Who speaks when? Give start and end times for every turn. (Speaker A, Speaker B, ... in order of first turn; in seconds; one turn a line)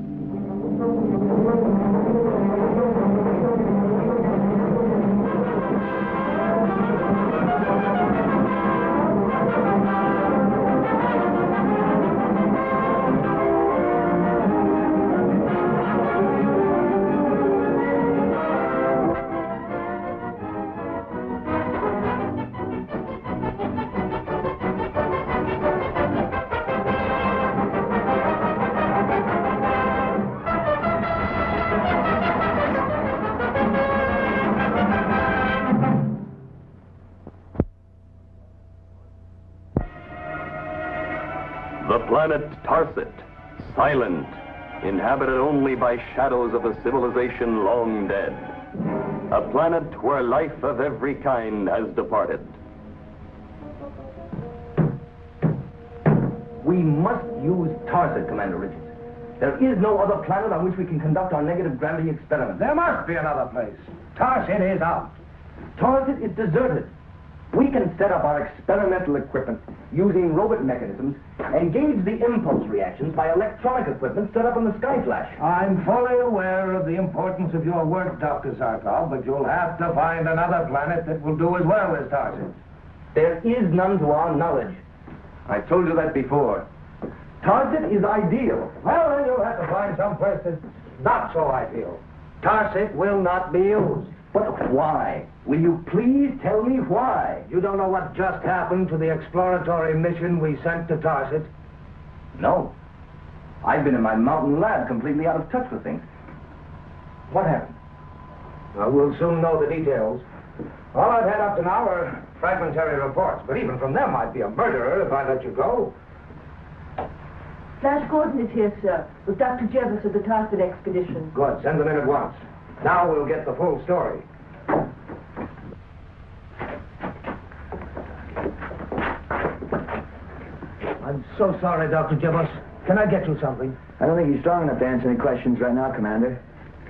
Speaker A: 41.8-48.5
Speaker A: 49.3-52.6
Speaker B: 56.6-62.7
Speaker C: 62.6-65.2
Speaker B: 65.8-66.9
Speaker B: 67.5-75.4
Speaker C: 75.4-82.6
Speaker B: 83.2-84.8
Speaker B: 85.5-86.7
Speaker B: 87.4-88.8
Speaker C: 88.7-94.1
Speaker B: 94.3-97.5
Speaker C: 97.5-101.5
Speaker B: 102.3-102.7
Speaker B: 103.6-106.0
Speaker B: 107.3-107.8
Speaker C: 108.8-110.2
Speaker C: 110.9-115.9
Speaker D: 117.8-121.3
Speaker C: 121.3-124.3
Speaker C: 131.0-133.8
Speaker E: 134.0-136.4